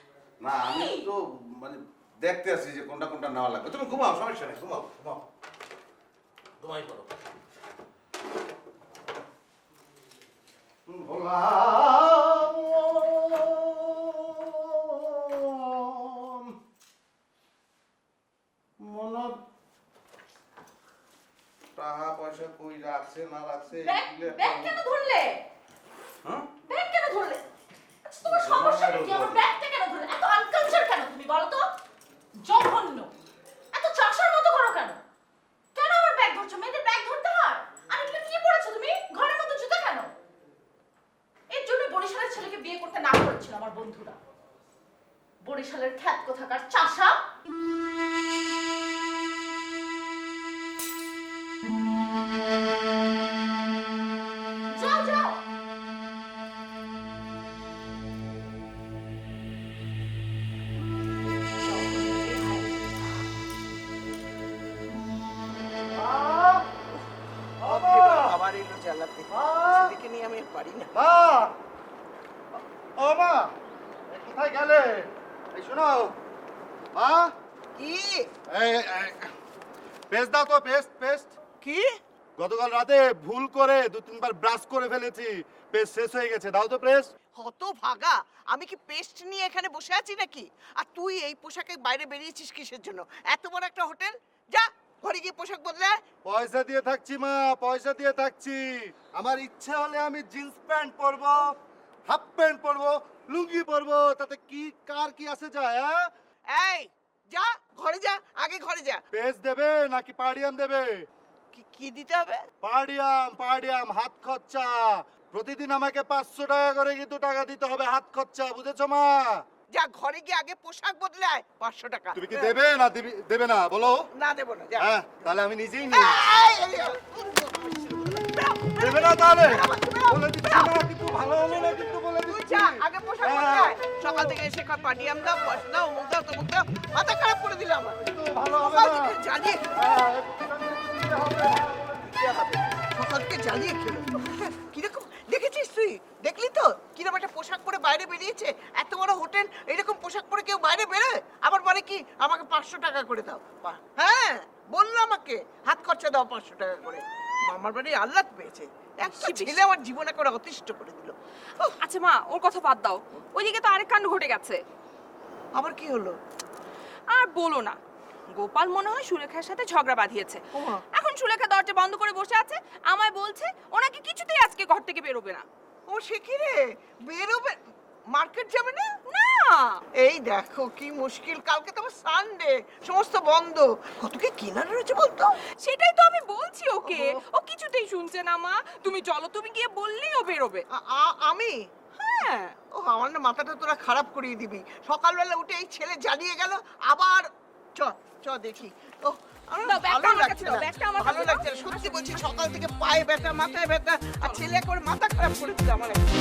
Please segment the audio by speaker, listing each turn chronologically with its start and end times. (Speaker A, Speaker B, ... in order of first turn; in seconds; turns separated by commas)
Speaker A: 0.4-5.2, Speaker B: 0.6-1.1, Speaker A: 6.6-7.1, Speaker A: 10.9-16.5, Speaker A: 18.8-19.3, Speaker A: 21.8-24.8, Speaker B: 23.7-25.4, Speaker B: 26.6-27.4, Speaker B: 28.1-31.7, Speaker A: 28.2-29.4, Speaker B: 32.4-33.1, Speaker B: 33.7-35.0, Speaker B: 35.7-40.1, Speaker B: 41.5-44.1, Speaker B: 45.4-47.2, Speaker B: 54.7-55.4, Speaker B: 61.6-62.7, Speaker C: 67.6-70.9, Speaker D: 67.6-68.3, Speaker D: 69.3-69.9, Speaker D: 70.9-71.5, Speaker D: 73.0-73.5, Speaker D: 74.1-76.1, Speaker D: 76.9-77.3, Speaker C: 77.8-78.3, Speaker D: 78.5-79.3, Speaker D: 80.1-81.3, Speaker C: 81.6-81.9, Speaker D: 82.4-87.1, Speaker C: 87.4-96.0, Speaker D: 96.2-101.5, Speaker D: 102.1-106.1, Speaker C: 106.5-109.0, Speaker D: 109.1-111.0, Speaker C: 111.5-112.4, Speaker D: 112.6-119.4, Speaker C: 119.7-122.5, Speaker D: 122.1-124.1, Speaker C: 124.1-124.9, Speaker D: 124.8-126.2, Speaker C: 125.9-138.0, Speaker D: 128.8-134.4, Speaker D: 138.0-139.2, Speaker C: 138.6-139.8, Speaker D: 139.8-142.1, Speaker C: 142.1-161.1, Speaker E: 159.0-159.7, Speaker E: 161.8-164.6, Speaker C: 165.6-166.2, Speaker E: 167.1-167.8, Speaker E: 168.3-175.4, Speaker C: 170.5-170.8, Speaker C: 175.9-177.5, Speaker C: 178.1-178.9, Speaker E: 179.1-179.5, Speaker C: 180.0-185.3, Speaker E: 185.6-190.6, Speaker C: 186.8-187.2, Speaker C: 190.7-191.5, Speaker E: 192.0-192.5, Speaker C: 192.8-206.0, Speaker E: 199.6-202.0